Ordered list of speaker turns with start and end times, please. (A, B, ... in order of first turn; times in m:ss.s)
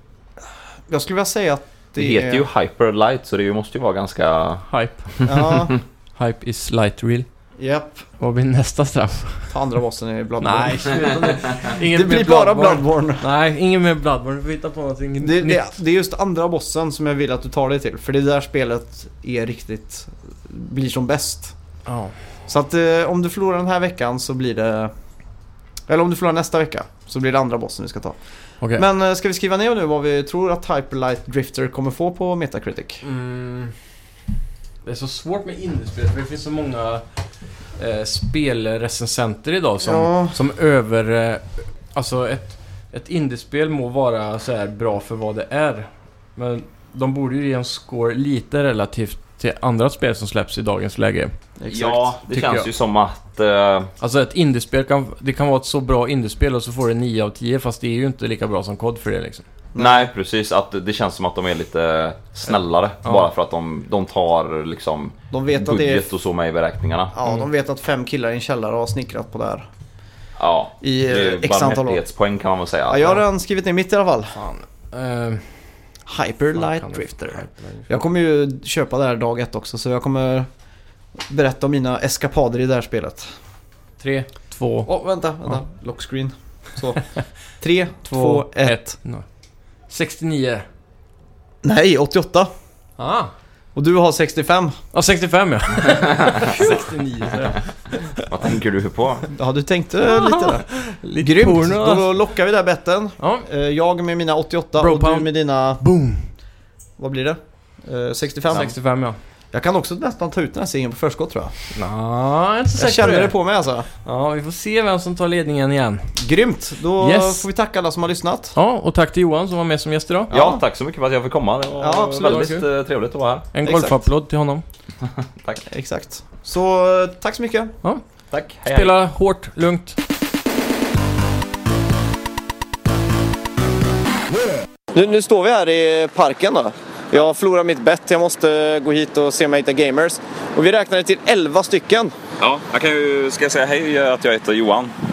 0:00.9-0:02.4 A
0:02.0-0:04.7 B
0:04.7-0:07.5 C
0:05.2-0:05.8 A
0:07.6-0:08.0 A
0:08.2-0:09.6 C
0:09.5-0:13.2 A
0:10.4-0:15.7 C
0:15.2-0:21.6 A
0:21.9-0:22.2 C
0:22.5-0:24.9 A
0:25.9-0:33.0 A
0:33.0-0:33.7 C
0:34.8-0:37.0 C
0:37.8-0:51.4 C
0:39.8-0:40.4 A
0:51.6-0:52.1 A
0:51.7-0:53.9 B
0:52.3-0:52.7 C
0:54.0-0:59.4 C
0:59.8-1:00.1 A
0:59.8-1:07.1 B
1:05.3-1:06.1 A
1:07.1-1:09.7 A
1:10.4-1:13.1 B
1:10.8-1:12.0 A
1:12.9-1:14.4 A
1:14.4-1:15.9 C
1:16.1-1:20.5 A
1:16.6-1:17.9 C
1:21.3-1:23.3 A
1:24.0-1:24.9 C
1:24.8-1:29.0 A
1:28.1-1:29.3 C
1:29.9-1:30.7 C
1:31.6-1:32.5 A
1:33.0-1:33.3 C
1:33.8-1:34.8 A
1:34.9-1:38.2 C
1:38.3-1:39.3 B
1:39.3-1:40.7 A
1:40.0-1:42.1 C
1:41.2-1:45.8 A
1:43.2-1:43.5 C
1:44.8-1:46.3 C
1:47.0-1:48.8 A
1:48.5-1:49.2 C
1:49.5-1:51.6 A
1:51.7-1:53.4 C
1:52.8-1:53.9 A
1:54.0-1:56.2 C
1:56.2-1:58.6 A
1:57.0-1:57.4 C
1:58.6-2:00.3 C
2:00.3-2:00.6 A
2:00.3-2:03.5 B
2:01.8-2:02.5 A
2:01.9-2:02.7 C
2:03.5-2:04.6 C
2:03.6-2:04.0 A
2:05.1-2:05.7 B
2:05.7-2:07.8 A
2:08.3-2:08.9 B
2:08.6-2:10.0 C
2:14.9-2:22.1 A
2:22.4-2:24.9 B